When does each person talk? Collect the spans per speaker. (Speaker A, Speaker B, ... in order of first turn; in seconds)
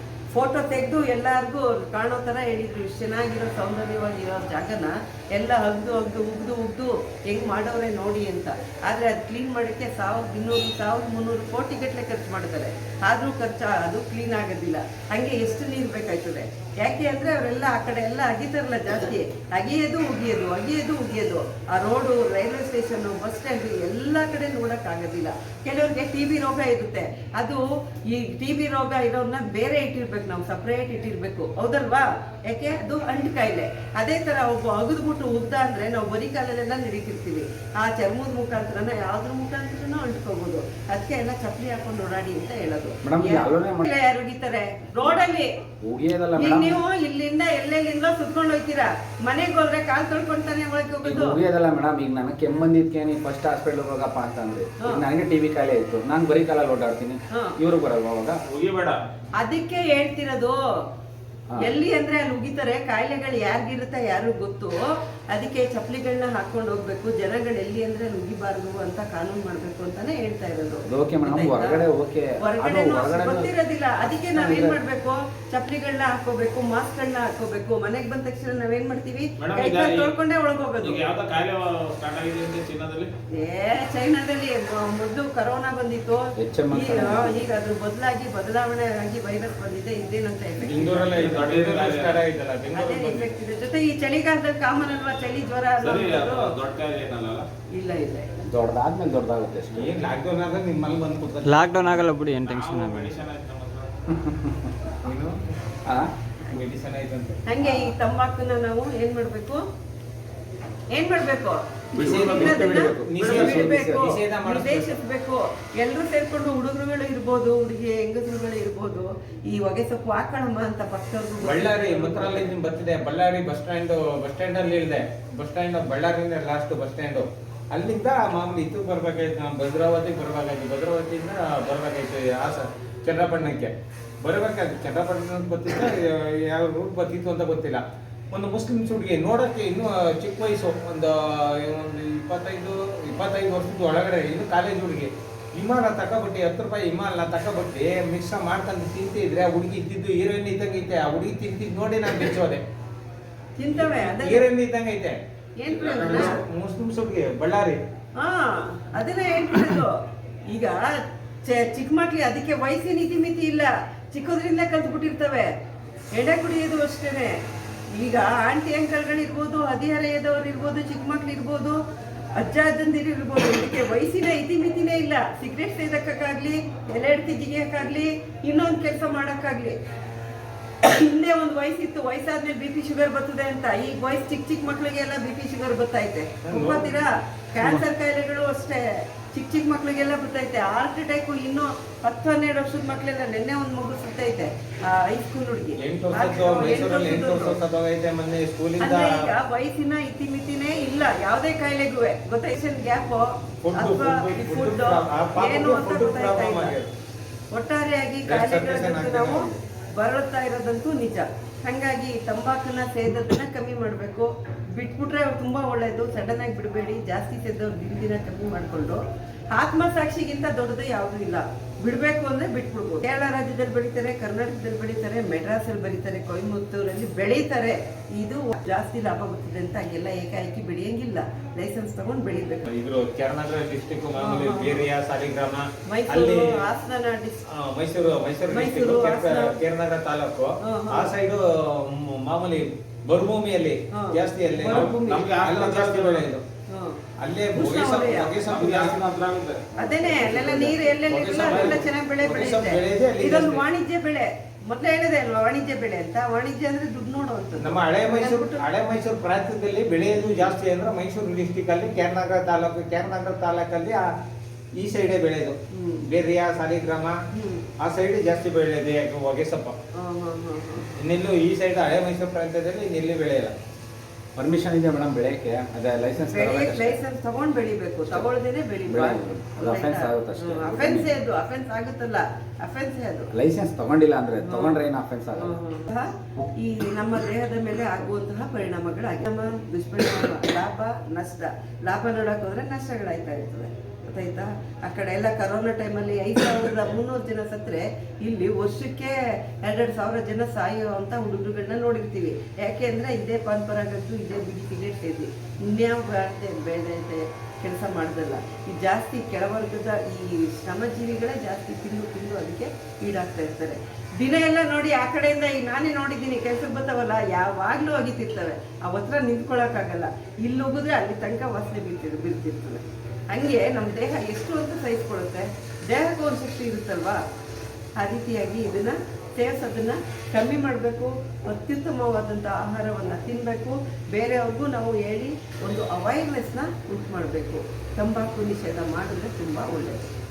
Speaker A: 0.3-45.5, 46.4-51.4, 54.8-55.0, 57.3-57.6, 59.4-60.6, 61.6-64.8, 65.3-71.8, 72.4-81.1, 83.3-91.5, 92.7-96.5, 97.7-98.4, 107.5-109.6, 110.9-122.5, 153.6-154.5, 155.6-156.4, 158.2-160.0, 160.5-160.8, 161.5-165.5, 166.1-167.4, 167.9-171.8, 172.3-179.8, 180.8-197.6, 198.8-206.8, 207.5-219.0, 219.5-232.7, 234.2-234.9, 235.9-237.4, 238.5-239.5, 240.6-241.1, 243.9-245.3, 246.7-247.0, 247.5-248.3, 249.8-258.6, 265.7-266.1, 267.3-267.7, 270.0-270.9, 276.3-283.3, 284.4-284.8, 285.4-327.2, 328.0-340.1
Speaker B: 43.0-43.9, 45.8-46.8, 51.0-58.4, 70.9-73.5, 74.3-74.8, 86.4-87.4, 98.4-100.0, 104.1-105.0, 107.6-107.9, 113.0-114.1, 274.4-277.0, 278.9-281.2, 283.3-285.6
Speaker C: 58.5-59.0, 79.4-80.1, 80.8-83.1, 91.2-92.2, 95.8-97.5, 102.4-103.9, 244.7-246.3, 248.5-250.4
Speaker D: 90.6-93.3, 99.7-102.0, 105.0-105.4, 106.5-107.4, 112.0-115.0, 121.4-152.6, 153.8-155.2, 155.7-157.8, 186.4-186.9, 195.8-199.1, 203.6-206.9, 208.2-209.6, 232.7-236.4, 237.5-241.4, 242.0-246.4, 247.2-249.1, 250.3-253.6, 257.6-264.0, 264.8-265.6, 266.1-267.2, 267.8-269.7, 271.0-273.6
Speaker E: 101.4-103.1, 112.1-113.1